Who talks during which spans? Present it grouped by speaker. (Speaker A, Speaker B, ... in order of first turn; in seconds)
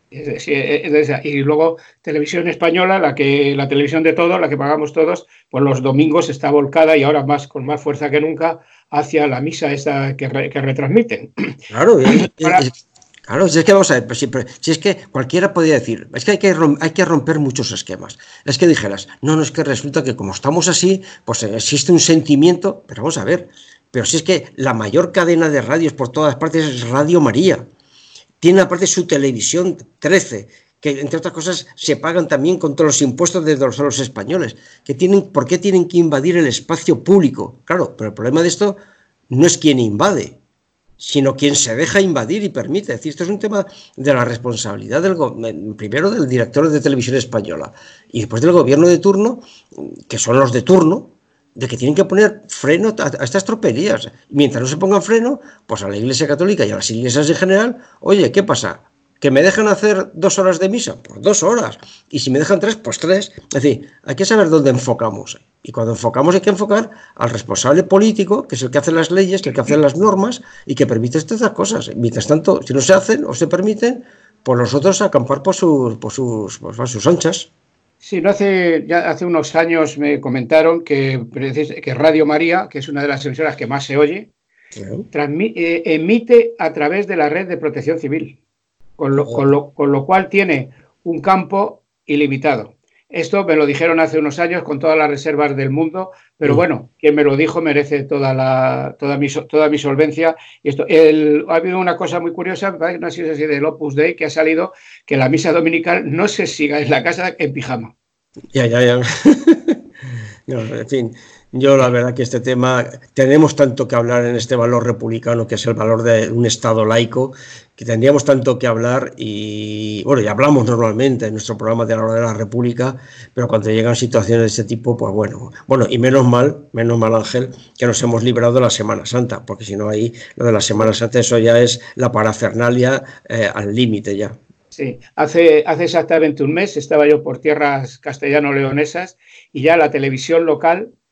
Speaker A: 0.1-12.6, 78.0-84.3, 85.1-88.4, 89.0-107.9, 134.7-140.9
Speaker B: 11.7-12.7, 13.2-27.7, 28.4-38.8, 39.3-40.4, 41.0-77.5, 84.7-85.0, 108.5-109.8, 110.5-134.4